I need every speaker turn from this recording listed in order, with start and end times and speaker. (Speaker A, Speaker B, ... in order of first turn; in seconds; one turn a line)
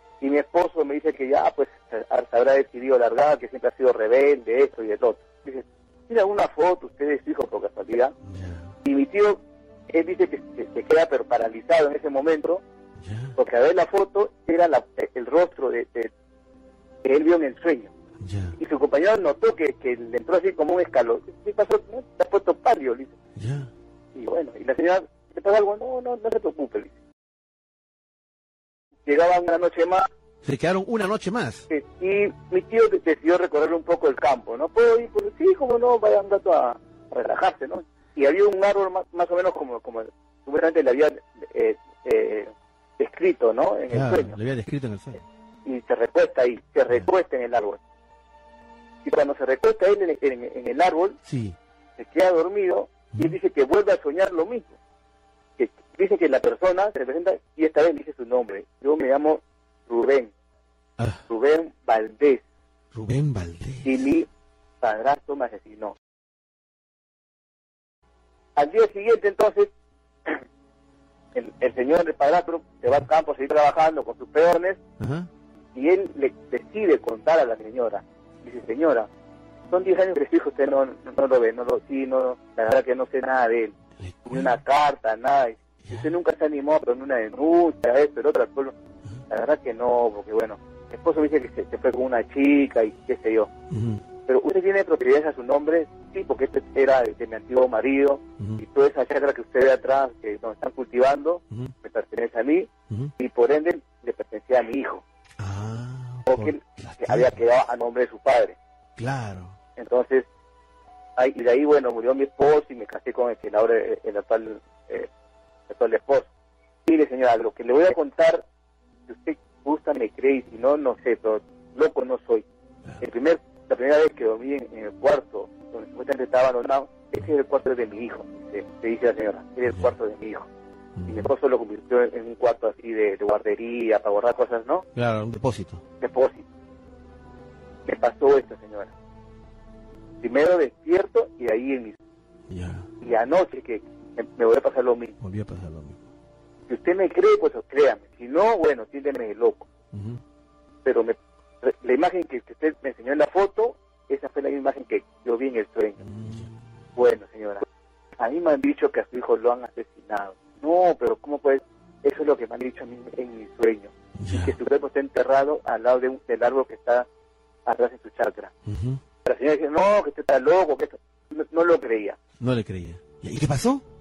Speaker A: 0.2-8.1
Speaker B: 8.2-8.7
Speaker A: 8.8-12.6
Speaker B: 13.0-13.3
Speaker A: 13.3-16.1
Speaker A: 17.0-17.9
Speaker B: 18.2-18.6
Speaker A: 18.6-23.1
Speaker B: 23.4-23.7
Speaker A: 24.1-26.9
Speaker A: 29.1-30.1
Speaker B: 30.4-31.7
Speaker A: 31.7-44.4
Speaker B: 43.9-45.2
Speaker A: 45.6-47.8
Speaker A: 49.0-51.2
Speaker B: 51.2-51.6
Speaker A: 52.0-54.7
Speaker A: 55.6-60.3
Speaker B: 61.0-61.2
Speaker A: 61.3-62.4
Speaker B: 62.9-64.0
Speaker A: 63.8-64.3
Speaker A: 64.8-65.9
Speaker A: 68.5-69.7
Speaker A: 71.3-74.8
Speaker B: 75.0-75.3
Speaker A: 75.7-79.1
Speaker A: 79.7-83.7
Speaker B: 84.0-84.5
Speaker A: 84.2-88.7
Speaker B: 85.8-86.1
Speaker A: 89.3-93.5
Speaker B: 93.7-94.0
Speaker A: 94.3-105.0
Speaker B: 105.4-107.4
Speaker A: 106.3-108.6
Speaker B: 109.0-109.5
Speaker A: 109.8-110.3
Speaker A: 111.2-115.1
Speaker A: 115.7-116.3
Speaker A: 116.8-118.4
Speaker A: 119.1-122.5
Speaker A: 123.0-130.5
Speaker B: 131.0-131.3
Speaker A: 131.1-134.8
Speaker B: 134.9-135.8
Speaker A: 136.0-136.4
Speaker A: 137.8-138.9
Speaker A: 140.2-142.0
Speaker B: 142.5-142.9
Speaker A: 143.0-145.2
Speaker B: 145.2-146.0
Speaker A: 146.7-149.7
Speaker B: 149.9-150.2
Speaker A: 150.8-156.0
Speaker B: 156.0-156.5
Speaker A: 156.9-157.6
Speaker A: 158.2-167.1
Speaker B: 164.2-164.6
Speaker A: 167.7-168.5
Speaker B: 168.7-169.0
Speaker A: 169.2-172.2
Speaker B: 172.4-173.8